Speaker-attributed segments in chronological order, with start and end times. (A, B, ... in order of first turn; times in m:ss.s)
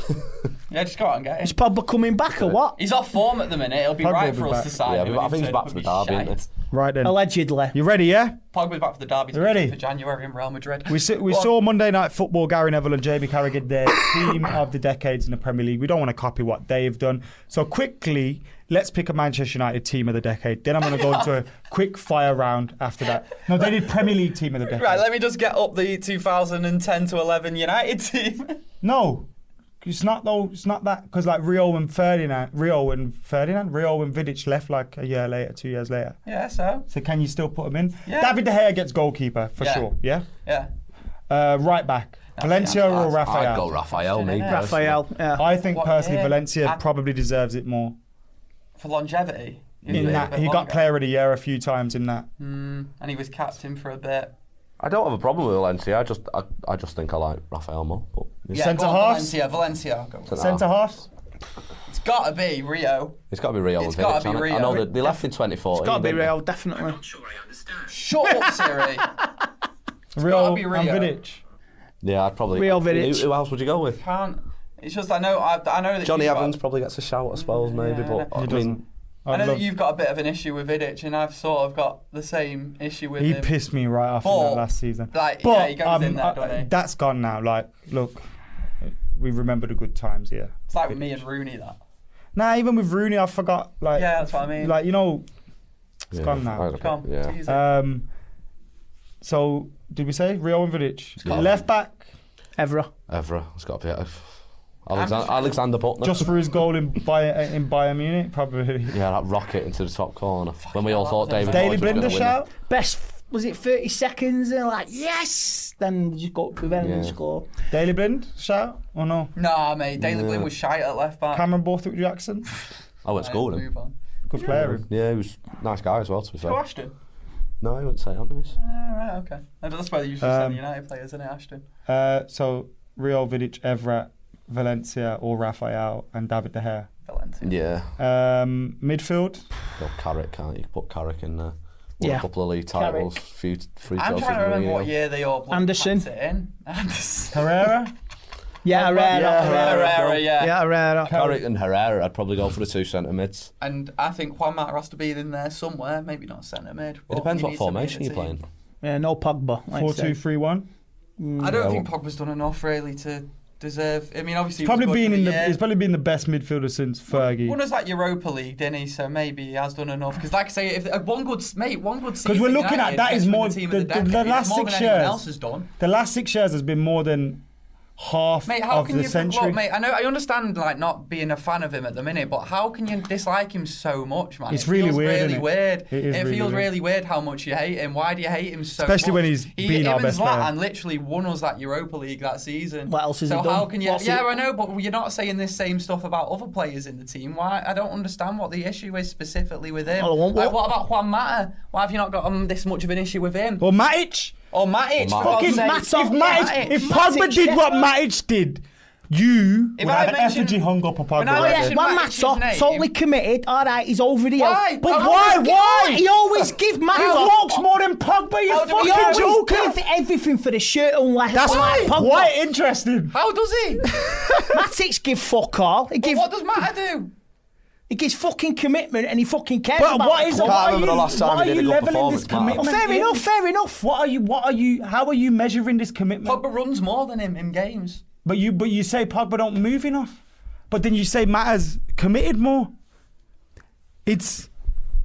0:00.7-0:01.6 A
0:01.4-0:02.8 B
0:02.8-0:06.5 A
0:04.0-0:04.8 C
0:04.8-0:06.4 D
0:06.7-0:08.4 C
0:07.0-0:07.8 B
0:08.5-0:11.5 A
0:09.3-0:09.8 C
0:10.9-0:25.1 C
0:20.9-0:21.3 A
0:24.7-0:28.6 A
0:28.8-0:29.3 C
0:29.8-0:36.2 C
0:36.3-0:36.9 A
0:36.9-0:40.3 C
0:38.1-0:38.4 A
0:39.6-0:39.9 A
0:40.4-0:40.7 A
0:41.3-0:43.7 C
0:42.4-0:44.7 A
0:43.0-0:45.0 D
0:44.4-0:45.5 B
0:45.4-0:48.0 C
0:45.7-0:46.8 A
0:48.8-0:50.8 A
0:49.9-0:50.3 D
0:49.9-0:52.3 C
0:52.4-0:54.3 A
0:54.8-0:58.6 D
0:58.5-0:59.4 C
0:58.5-1:00.3 A
1:00.3-1:00.6 D
1:00.3-1:01.1 C
1:01.9-1:03.2 A
1:03.3-1:06.3 D
1:03.8-1:05.2 A
1:05.7-1:07.0 B
1:07.8-1:09.1 A
1:10.2-1:11.4 C
1:10.2-1:11.1 A
1:12.0-1:14.0 D
1:12.5-1:13.3 B
1:14.0-1:16.6 A
1:16.0-1:18.8 D
1:17.3-1:18.4 A
1:18.4-1:19.6 C
1:19.3-1:23.5 A
1:23.2-1:28.2 C
1:24.2-1:26.7 A
1:28.8-1:30.5 C
1:30.7-1:31.8 A
1:32.4-1:35.3 C
1:34.0-1:34.8 A
1:36.1-1:36.7 C
1:36.1-1:37.4 D
1:36.8-1:37.6 A
1:37.4-1:38.1 C
1:39.2-1:42.0 C
1:41.2-1:41.6 D
1:42.6-1:42.9 B
1:43.1-1:46.3 D
1:44.9-1:45.6 A
1:46.0-1:49.0 C
1:48.9-1:52.4 D
1:50.6-1:52.3 A
1:51.4-1:52.5 C
1:52.5-1:57.5 B
1:56.8-1:57.2 D
1:57.7-1:59.3 C
1:59.4-2:01.5 A
2:00.0-2:00.5 D
2:01.3-2:02.5 C
2:03.0-2:03.7 D
2:03.2-2:04.0 A
2:04.3-2:04.9 C
2:04.4-2:06.6 D
2:06.4-2:06.9 A
2:07.6-2:08.6 D
2:08.6-2:11.6 A
2:10.2-2:10.6 C
2:11.9-2:16.9 C
2:17.1-2:17.6 A
2:17.4-2:17.9 D
2:18.0-2:19.5 C
2:19.8-2:24.9 D
2:22.0-2:23.1 B
2:24.0-2:27.6 A
2:25.5-2:26.1 B
2:27.3-2:27.9 C
2:28.6-2:31.1 B
2:28.7-2:29.9 C
2:29.0-2:30.3 D
2:29.2-2:30.6 A
2:31.1-2:31.4 C
2:31.1-2:33.5 D
2:33.6-2:38.4 A
2:37.1-2:38.4 D
2:38.8-2:40.2 B
2:39.7-2:40.7 C
2:41.2-2:41.6 B
2:41.4-2:45.6 A
2:41.5-2:41.9 D
2:44.6-2:47.6 C
2:47.1-2:55.7 A
2:52.2-2:55.2 C
2:55.8-2:57.4 C
2:58.0-2:59.6 C
2:58.5-3:23.7 A
3:04.5-3:06.7 C
3:08.8-3:10.5 C
3:12.9-3:14.4 B
3:20.0-3:20.6 B
3:23.6-3:24.4 C
3:24.5-3:26.8 A
3:25.0-3:25.6 D
3:25.2-3:31.8 C
3:25.4-3:27.9 B
3:29.8-3:30.6 A
3:31.2-3:32.9 A
3:31.4-3:37.6 B
3:34.4-3:35.5 A
3:34.8-3:39.8 C
3:37.0-3:37.3 A
3:38.5-3:39.4 A
3:38.6-3:42.3 B
3:41.3-3:43.2 C
3:41.5-3:42.0 A
3:43.1-3:43.8 A
3:43.9-3:44.6 C
3:44.3-3:46.3 B
3:46.0-3:47.1 A
3:47.9-3:50.9 B
3:49.8-3:53.3 C
3:50.4-3:52.7 D
3:52.6-3:53.8 B
3:53.8-3:56.4 C
3:56.2-3:58.0 A
3:58.2-4:00.2 C
4:00.7-4:02.7 C
4:04.1-4:04.5 C